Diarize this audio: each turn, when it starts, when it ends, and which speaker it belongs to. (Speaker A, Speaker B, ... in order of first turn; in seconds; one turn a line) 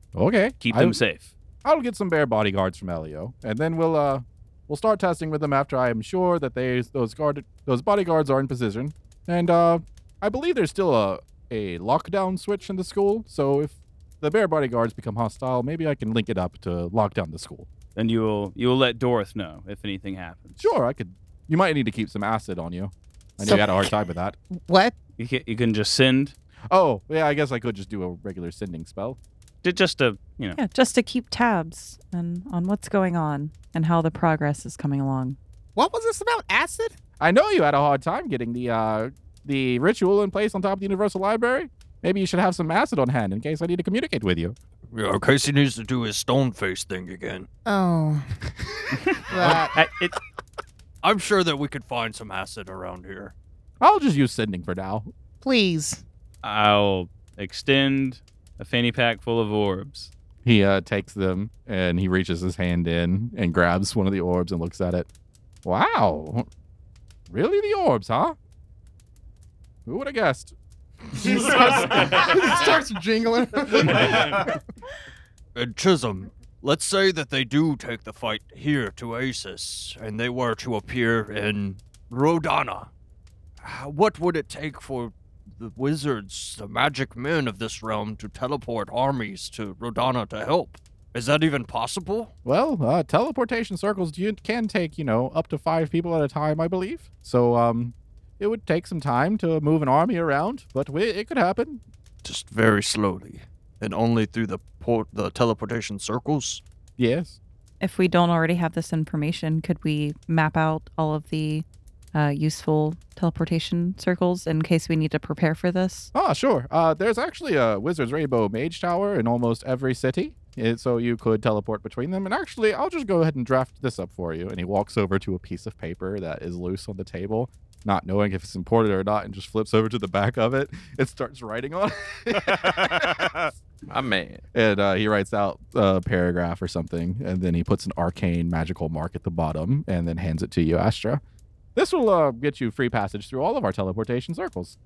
Speaker A: 0.1-1.0
Speaker B: 0.6-1.3
Speaker A: 1.6-17.7
Speaker B: 17.9-20.7
Speaker A: 20.6-24.4
Speaker C: 23.4-23.9
Speaker C: 24.5-24.9
Speaker B: 25.2-26.3
Speaker A: 26.7-29.2
Speaker B: 29.6-30.6
Speaker D: 30.5-35.4
Speaker C: 35.8-37.0
Speaker A: 37.2-44.5
Speaker E: 44.9-47.5
Speaker C: 47.6-49.8
Speaker B: 49.7-50.2
Speaker E: 51.0-53.3
Speaker A: 53.8-55.1
Speaker C: 55.4-56.0
Speaker B: 56.4-60.1
Speaker A: 60.4-65.1
Speaker A: 65.6-66.5
Speaker A: 67.3-68.3
Speaker A: 69.8-70.5
Speaker C: 71.1-74.6
Speaker E: 75.5-82.9
Speaker E: 83.6-92.3
Speaker A: 92.4-101.8
Speaker E: 102.2-106.6
Speaker A: 107.0-107.4
Speaker D: 107.8-116.1
Speaker A: 116.1-133.4
Speaker F: 132.4-134.4
Speaker A: 134.5-141.2
Speaker A: 141.7-144.8